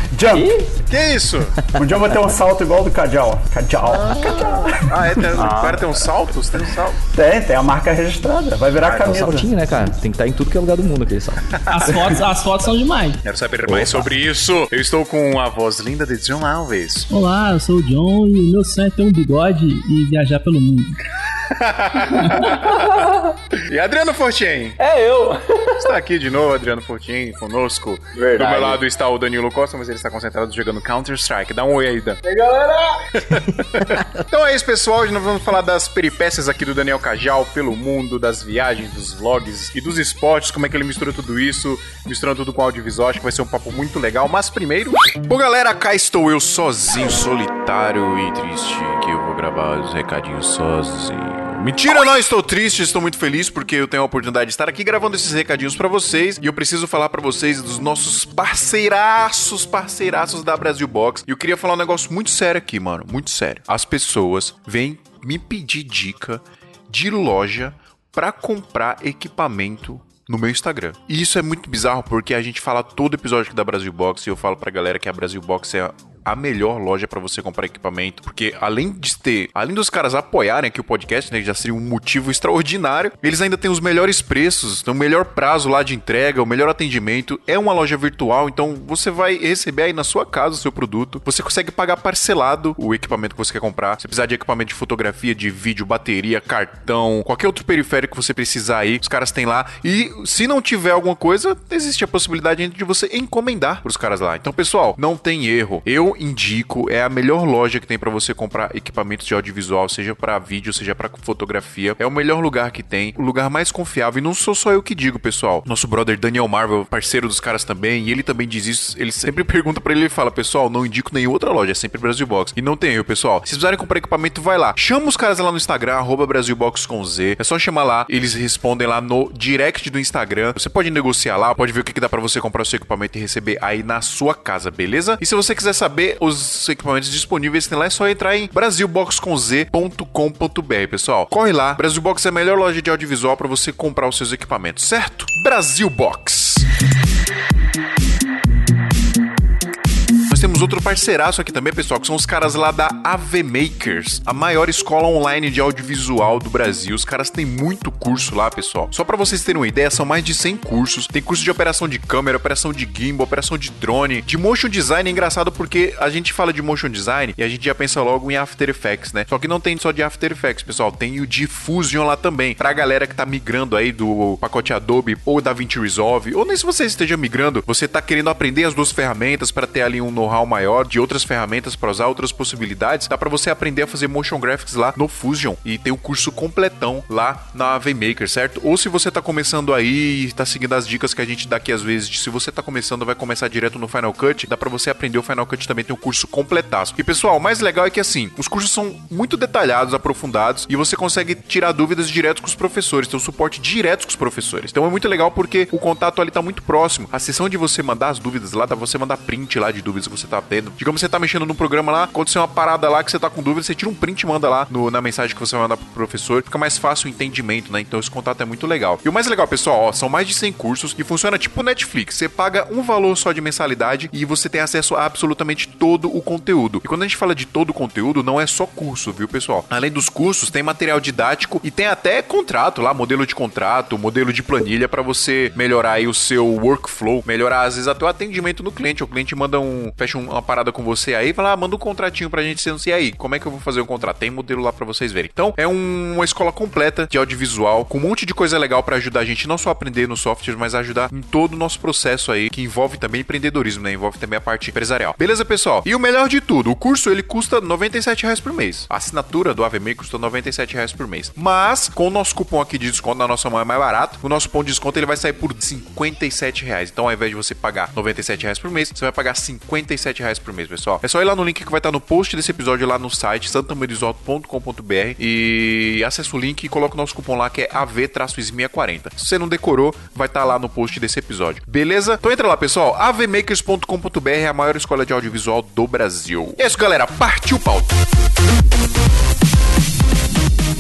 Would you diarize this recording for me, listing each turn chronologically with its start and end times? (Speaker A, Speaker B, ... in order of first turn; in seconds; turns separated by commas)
Speaker A: 0.1-0.7, Speaker B: 0.3-0.6, Speaker C: 0.9-1.6, Speaker A: 1.8-5.9, Speaker C: 4.2-7.0, Speaker B: 5.4-5.8, Speaker A: 7.1-9.5, Speaker C: 8.8-9.2, Speaker D: 9.0-11.5, Speaker C: 11.5-12.0, Speaker E: 11.7-13.2, Speaker C: 13.2-17.1, Speaker D: 13.7-14.1, Speaker E: 17.1-21.0, Speaker C: 21.4-23.1, Speaker E: 22.1-22.7, Speaker B: 22.7-23.2, Speaker C: 23.6-24.8, Speaker B: 24.8-25.9, Speaker C: 25.8-32.2, Speaker B: 28.1-28.8, Speaker B: 32.2-33.0, Speaker C: 33.1-146.7, Speaker C: 150.3-288.0